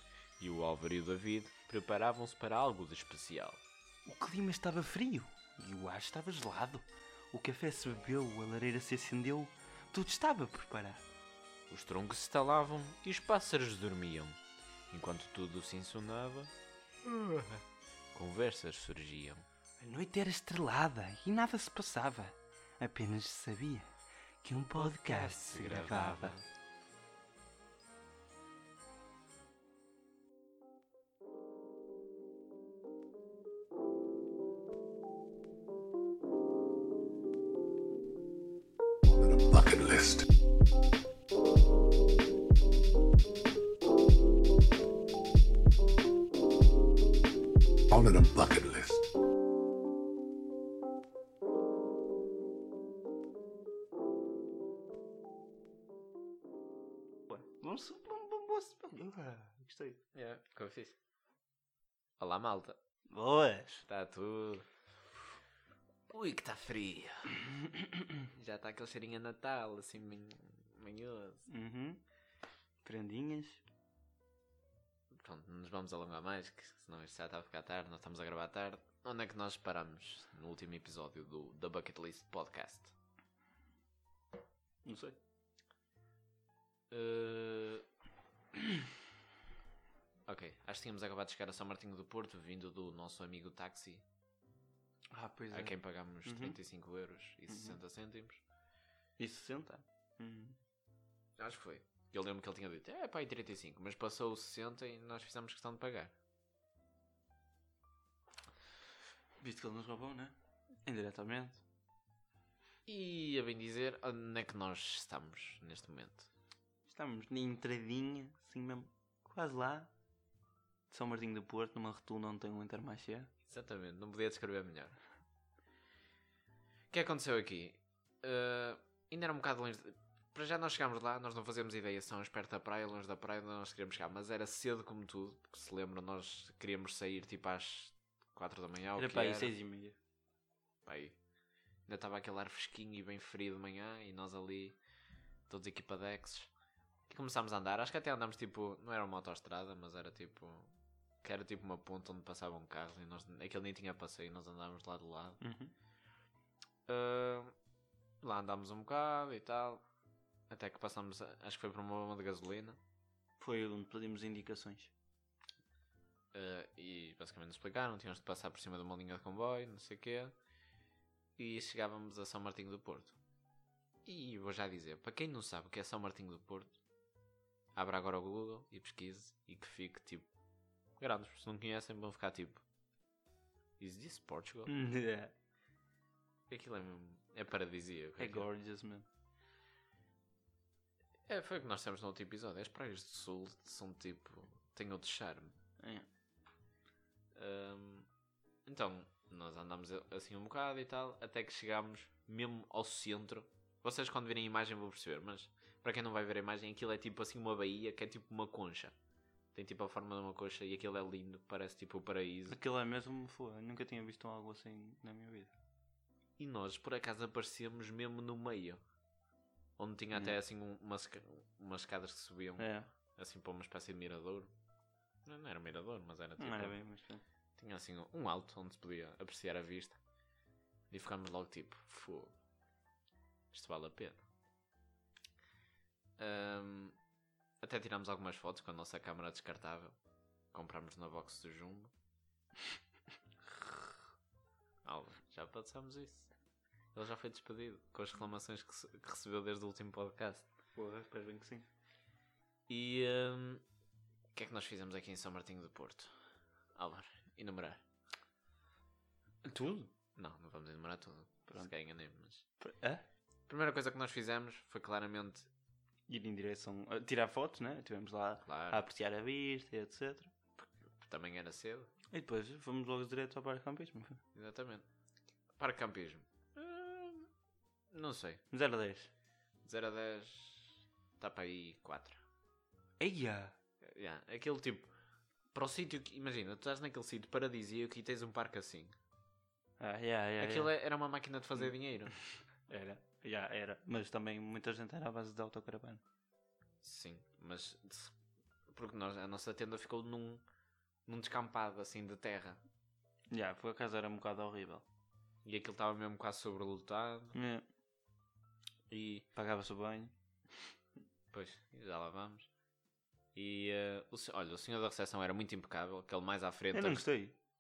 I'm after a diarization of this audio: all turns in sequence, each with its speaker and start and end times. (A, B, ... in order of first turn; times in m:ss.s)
0:00.4-0:03.6 A
0:04.0-0:11.0 B
0:11.7-0:14.4 A
0:14.9-0:16.5 A
0:17.1-0:17.6 B
0:18.1-0:19.4 A
0:19.8-0:23.9 B
0:24.4-0:26.4 B
0:24.8-0:26.5 A
0:39.1-0:40.3 C
0:47.9-0:49.1 C
0:57.3-1:00.0 B
1:00.1-1:01.0 A
1:02.2-1:02.8 A
1:03.1-1:03.8 B
1:03.9-1:04.7 A
1:06.1-1:07.4 A
1:08.3-1:11.5 A
1:11.5-1:12.0 B
1:12.8-1:13.6 B
1:15.1-1:22.9 A
1:24.8-1:25.2 B
1:26.9-1:27.9 A
1:30.3-1:34.0 A
1:35.1-1:36.6 B
1:35.5-1:38.4 A
1:37.5-1:37.8 B
1:39.2-1:40.6 B
1:41.4-1:46.1 A
1:49.4-1:50.4 B
1:50.9-1:51.6 B
1:52.9-1:56.3 A
1:56.9-1:59.9 B
2:00.9-2:03.3 B
2:03.5-2:05.0 A
2:06.9-2:19.5 A
2:19.0-2:20.0 B
2:20.8-2:21.2 A
2:21.9-2:24.8 A
2:25.5-2:26.5 A
2:27.1-2:30.7 A
2:31.2-2:35.4 A
2:35.4-2:35.7 B
2:36.9-2:37.6 A
2:38.2-2:39.8 A
2:40.5-2:42.8 A
2:43.4-2:44.9 B
2:46.3-2:50.4 A
2:51.4-2:53.2 A
2:54.0-2:56.7 A
2:57.8-3:00.3 A
3:01.0-3:02.6 A
3:03.8-3:04.7 A
3:04.7-3:05.3 B
3:06.5-3:08.5 A
3:08.2-3:09.1 B
3:11.3-3:15.6 A
3:15.8-3:16.1 B
3:17.3-3:18.1 A
3:18.7-3:29.0 A
3:29.5-3:32.6 A
3:32.5-3:35.5 B
3:36.4-3:38.8 A
3:39.8-3:44.5 A
3:42.6-3:42.9 B
3:45.2-3:46.8 A
3:46.4-3:47.2 B
3:47.6-3:50.0 A
3:50.9-3:52.3 A
3:53.5-3:54.2 A
3:56.2-3:57.0 A
3:57.6-4:00.0 A
4:00.5-4:01.9 A
4:04.8-4:06.3 A
4:06.9-4:10.5 A
4:10.8-4:11.7 B
4:12.7-4:13.6 A
4:14.3-4:16.2 A
4:16.8-4:17.8 A
4:19.4-4:19.9 B
4:20.2-4:22.4 A
4:22.6-4:23.0 B
4:23.5-4:25.5 A
4:26.1-4:30.3 B
4:28.4-4:28.8 A
4:30.6-4:31.9 A
4:32.1-4:34.2 B
4:34.3-4:34.9 A
4:35.5-4:37.3 A
4:37.9-4:38.4 A
4:38.5-4:39.1 B
4:39.6-4:42.2 A
4:43.0-4:43.6 B
4:43.8-4:44.9 A
4:45.5-4:49.0 A
4:49.8-4:50.7 B
4:50.4-4:52.2 A
4:52.7-4:56.0 B
4:56.8-4:58.2 A
4:58.7-5:00.4 A
5:01.1-5:02.6 A
5:03.3-5:04.9 B
5:05.4-5:07.4 A
5:07.3-5:07.6 B
5:08.9-5:09.3 A
5:09.3-5:10.7 B
5:11.3-5:12.5 A
5:13.4-5:17.0 A
5:16.7-5:17.4 B